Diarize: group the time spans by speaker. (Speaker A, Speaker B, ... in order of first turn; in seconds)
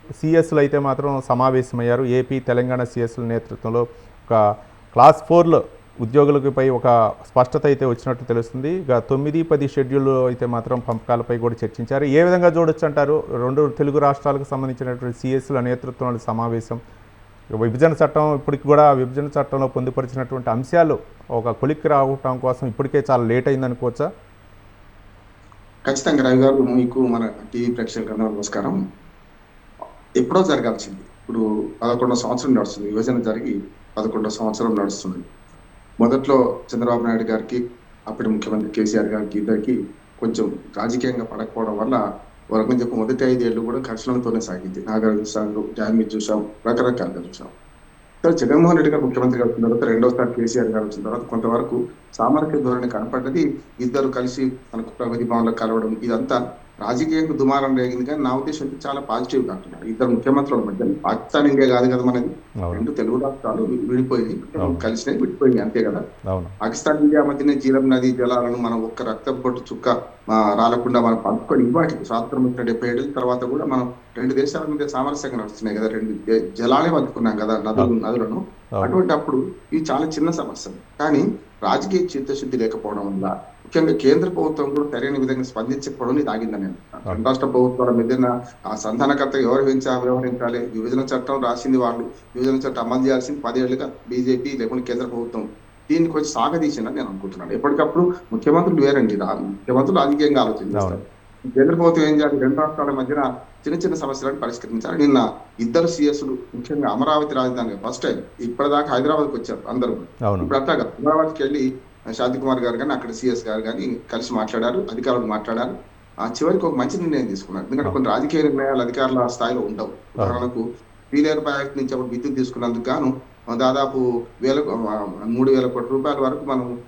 Speaker A: 0.2-4.4, 5.0-16.8, 17.6-24.1, 64.6-64.9, 100.7-101.0, 110.3-110.5, 120.2-120.5
Speaker B: 25.9-28.8, 30.2-35.2, 36.0-37.6, 38.1-42.0, 42.5-47.5, 48.2-66.0, 66.6-101.0, 101.5-111.7, 112.2-115.7, 116.3-126.7